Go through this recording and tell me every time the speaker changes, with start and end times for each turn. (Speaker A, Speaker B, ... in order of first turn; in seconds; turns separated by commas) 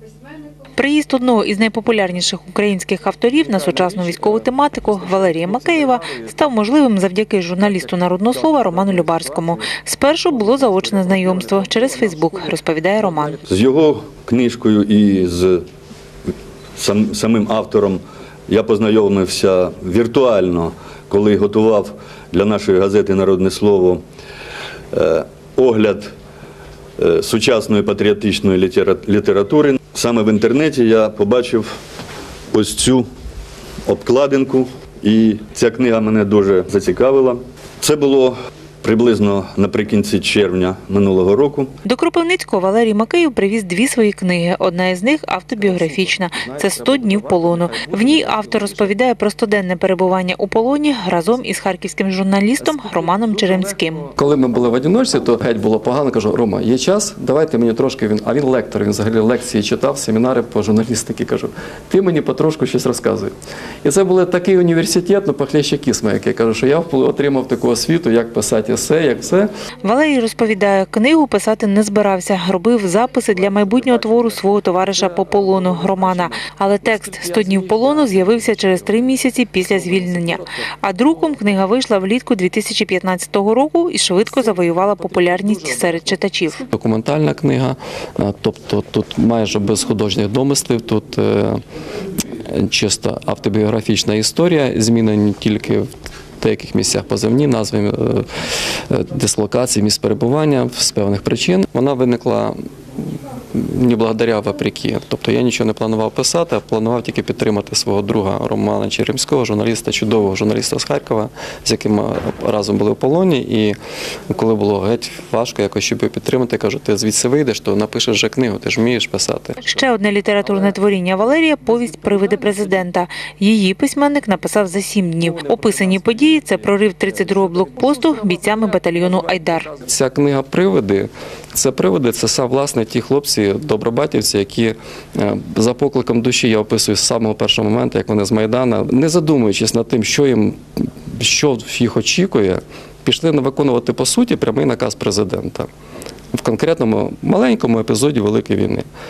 Speaker A: 0.8-13.4, Speaker B: 3.4-6.3, Speaker B: 7.7-9.6, Speaker B: 10.3-12.5, Speaker B: 13.0-13.4, Speaker C: 13.5-15.6, Speaker C: 16.8-24.0, Speaker C: 24.9-26.1, Speaker C: 27.0-31.7, Speaker C: 32.5-33.0, Speaker C: 33.9-41.7, Speaker A: 41.9-54.1, Speaker B: 45.6-48.9, Speaker B: 52.6-63.3, Speaker B: 63.8-69.5, Speaker A: 69.8-86.6, Speaker B: 73.3-81.4, Speaker B: 84.2-91.6, Speaker B: 92.4-95.9, Speaker B: 96.4-98.3, Speaker B: 98.9-113.8, Speaker B: 114.3-119.6, Speaker A: 119.6-129.7, Speaker B: 120.4-120.8, Speaker B: 121.6-122.8, Speaker B: 125.2-145.7, Speaker B: 146.3-148.9